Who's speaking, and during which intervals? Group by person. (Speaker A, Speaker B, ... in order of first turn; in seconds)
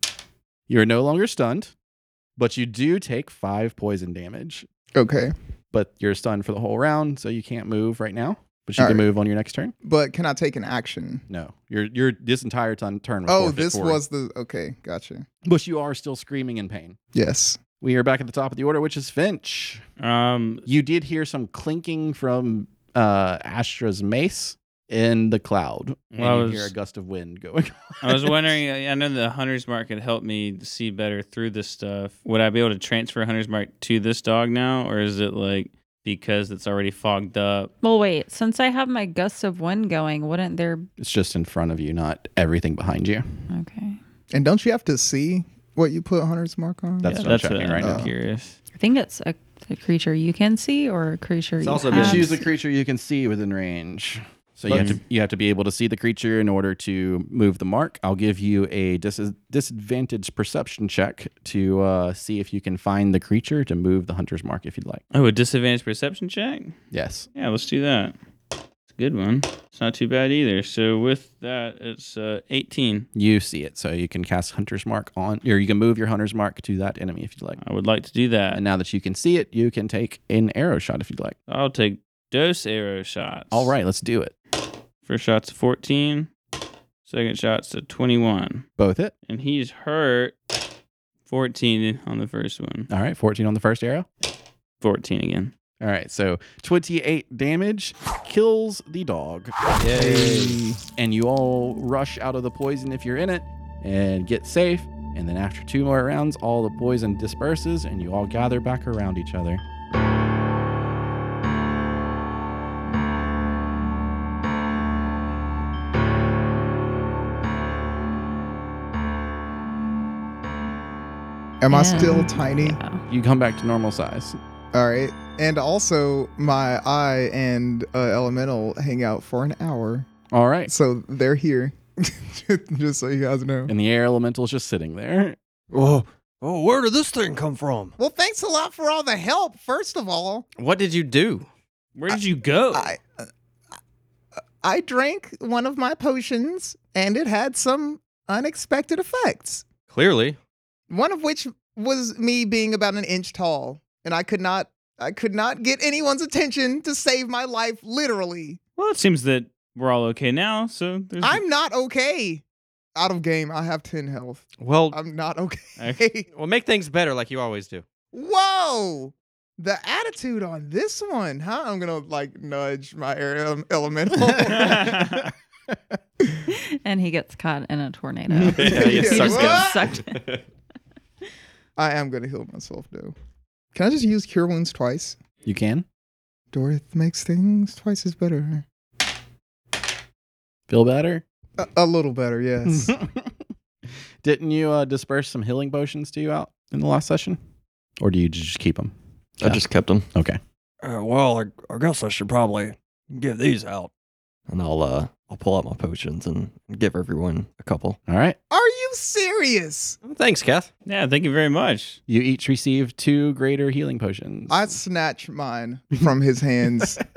Speaker A: 0.7-1.7, 2.4-4.7, 5.7-9.7, 11.3-14.0, 15.4-17.0, 17.8-19.8, 20.6-28.6, 41.0-43.4, 47.0-48.1, 51.9-65.0, 66.9-67.3, 73.1-77.6, 78.5-81.4, 83.5-84.3, 88.8-89.1, 92.9-94.1, 95.8-109.6, 123.1-124.4, 130.3-130.7, 133.7-135.4, 178.3-179.0, 185.4-185.8, 190.7-191.2, 192.6-197.4, 198.0-200.4, 208.1-208.4, 212.1-214.8
Speaker B: 4.9-5.3, 8.8-9.1, 9.8-11.2, 13.3-15.2, 17.1-17.6, 44.3-48.1, 121.6-122.8, 124.7-130.1, 130.7-133.7, 138.0-140.5, 142.7-143.0, 144.6-149.6, 150.9-158.6, 161.2-162.4, 162.9-166.3, 168.1-175.2, 178.7-179.9, 181.8-183.1, 183.7-185.2, 186.5-188.6, 191.6-192.9, 208.5-210.0, 214.5-217.0
Speaker C: 20.0-20.6, 26.1-26.7, 28.0-37.7, 47.0-48.5, 54.7-55.0, 65.1-66.8, 67.3-68.1, 68.9-73.1, 77.6-78.6, 81.5-83.7, 85.0-86.3, 87.0-88.7, 89.2-90.3, 91.3-92.9, 94.8-95.5, 141.9-142.9, 158.8-161.4, 174.5-175.3, 210.8-212.0
Speaker D: 37.8-40.9, 43.5-44.0, 48.7-52.5, 121.7-123.0, 176.5-180.2
Speaker E: 51.6-52.3, 99.8-100.7, 140.6-141.5, 149.9-150.4, 164.6-165.0, 166.3-167.8, 178.5-180.4, 210.0-210.7
Speaker F: 135.7-137.9, 199.4-200.1, 200.8-203.9, 204.5-208.0